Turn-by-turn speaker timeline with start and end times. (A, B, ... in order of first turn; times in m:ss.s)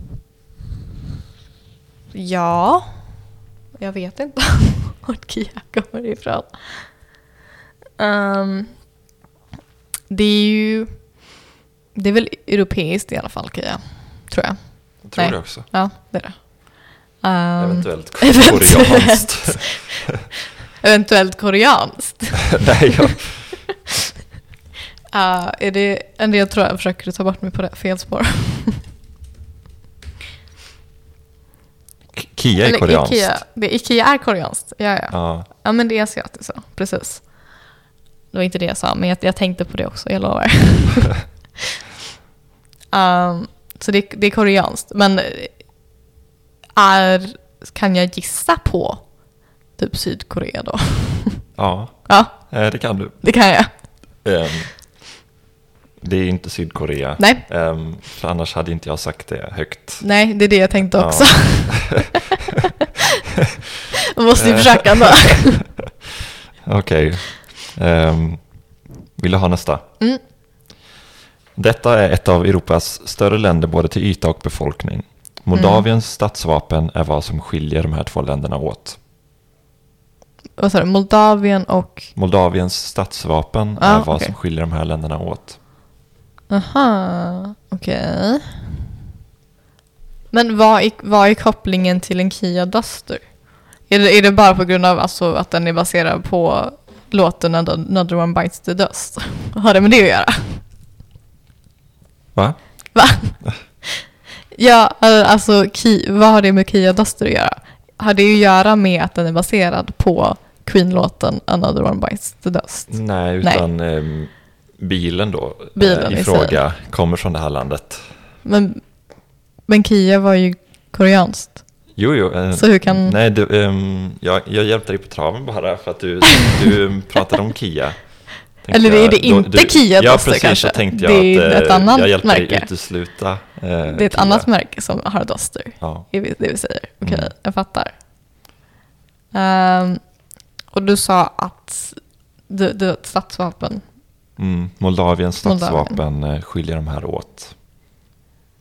0:02.1-0:02.9 A
0:03.8-0:06.9 A
0:08.0-0:08.7 A
0:10.1-0:10.9 A
0:12.0-0:14.6 A
0:15.0-0:15.7 B
0:15.2-0:16.4 A
0:17.2-0:20.0 A
0:17.6-0:20.2 B
0:20.8-0:23.1 A
0:22.4-0:23.6 B
0:25.1-0:28.8 A
0:32.1-0:33.4 B
0:32.6-0:37.3 A
0:35.1-0:35.5 B
0:38.3-0:41.2 A
0:42.9-0:45.5 A
0:46.8-0:49.1 A
0:49.8-0:51.4 A
0:51.6-0:53.2 B
0:52.1-0:52.4 A
0:53.2-0:53.7 A
0:54.2-0:54.7 B
0:56.0-1:00.0 B
0:57.2-0:57.5 A
1:00.0-1:03.0 A
1:00.9-1:02.7 B
1:04.1-1:05.7 A
1:04.4-1:08.4 B
1:09.2-1:09.8 B
1:11.6-1:19.0 B
1:15.5-1:15.9 A
1:20.6-1:22.1 A
1:22.2-1:25.6 B
1:23.8-1:24.3 A
1:26.5-1:28.8 A
1:30.3-1:33.3 A
1:33.9-1:40.6 A
1:42.9-1:53.6 A
1:52.9-1:58.1 B
1:55.8-1:56.6 A
1:58.4-1:58.8 A
1:59.7-2:01.6 A
2:02.0-2:08.0 B
2:02.5-2:03.2 A
2:08.6-2:14.5 B
2:08.7-2:12.7 A
2:13.8-2:17.9 A
2:15.8-2:16.1 B
2:17.0-2:17.3 B
2:19.3-2:20.0 A
2:20.7-2:23.8 A
2:24.4-2:27.5 B
2:25.4-2:26.0 A